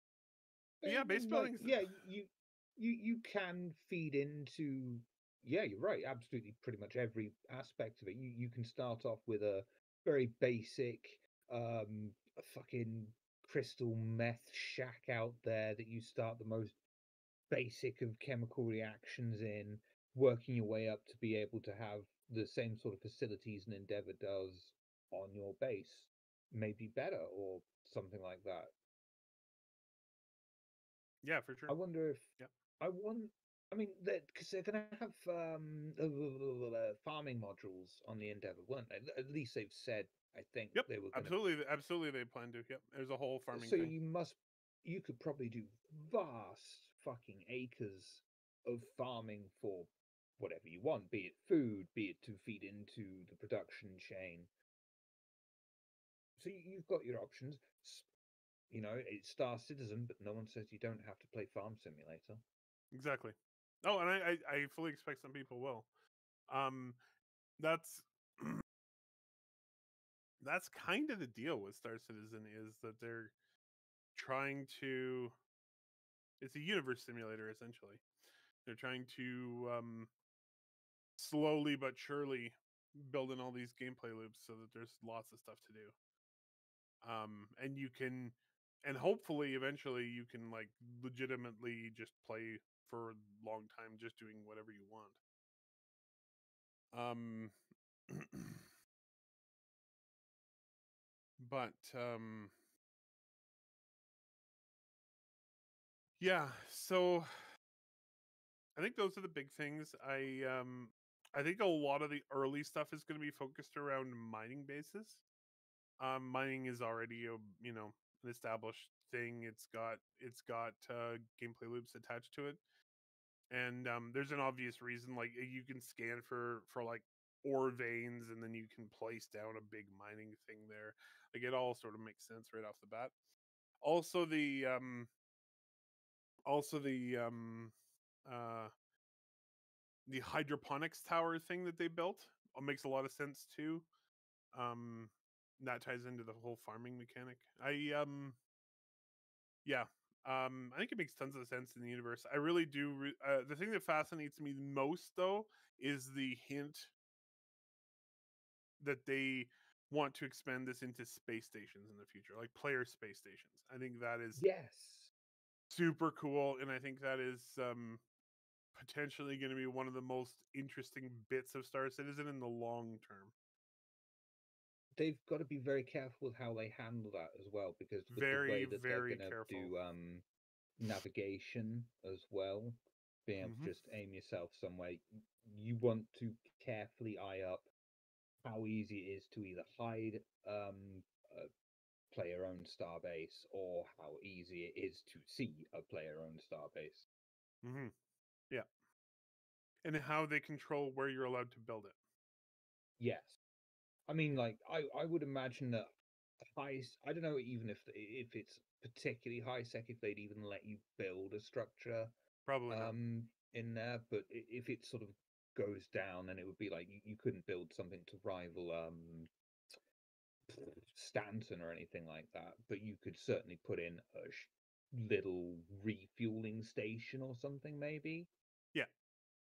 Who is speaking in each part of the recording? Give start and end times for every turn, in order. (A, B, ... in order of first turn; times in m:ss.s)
0:00.8-0:16.8 A
0:00.8-0:01.8 B
0:17.5-0:28.7 A
0:31.2-0:31.8 B
0:31.7-0:41.4 A
0:40.8-0:43.9 B
0:43.5-0:54.5 A
0:56.4-0:58.1 A
0:58.7-1:02.4 A
1:02.9-1:05.9 B
1:06.5-1:07.0 B
1:07.6-1:08.6 B
1:10.4-1:13.3 B
1:14.2-1:15.3 B
1:16.4-1:18.0 B
1:18.7-1:20.1 B
1:21.2-1:25.9 B
1:27.0-1:35.2 B
1:36.9-1:37.6 B
1:38.1-1:38.6 B
1:41.4-1:42.5 B
1:46.2-1:47.4 B
1:48.8-1:55.2 B
1:56.0-2:02.6 B
2:03.5-2:13.1 B
2:13.8-2:15.1 B
2:16.5-2:17.7 B
2:18.3-2:18.7 B
2:20.1-2:23.9 B
2:24.5-2:28.4 B
2:29.6-2:36.9 B
2:38.8-2:44.4 B
2:44.4-2:45.1 A
2:45.7-2:48.0 B
2:48.8-2:53.3 B
2:55.0-3:00.2 A
2:58.1-2:59.7 B
3:00.8-3:07.7 A
3:03.4-3:03.7 B
3:08.4-3:11.5 A
3:12.1-3:17.1 A
3:17.6-3:17.9 B
3:19.8-3:22.0 B
3:23.0-3:23.4 A
3:24.1-3:25.9 A
3:26.5-3:32.1 A
3:32.5-3:33.0 B
3:32.7-3:39.3 A
3:40.5-3:48.3 A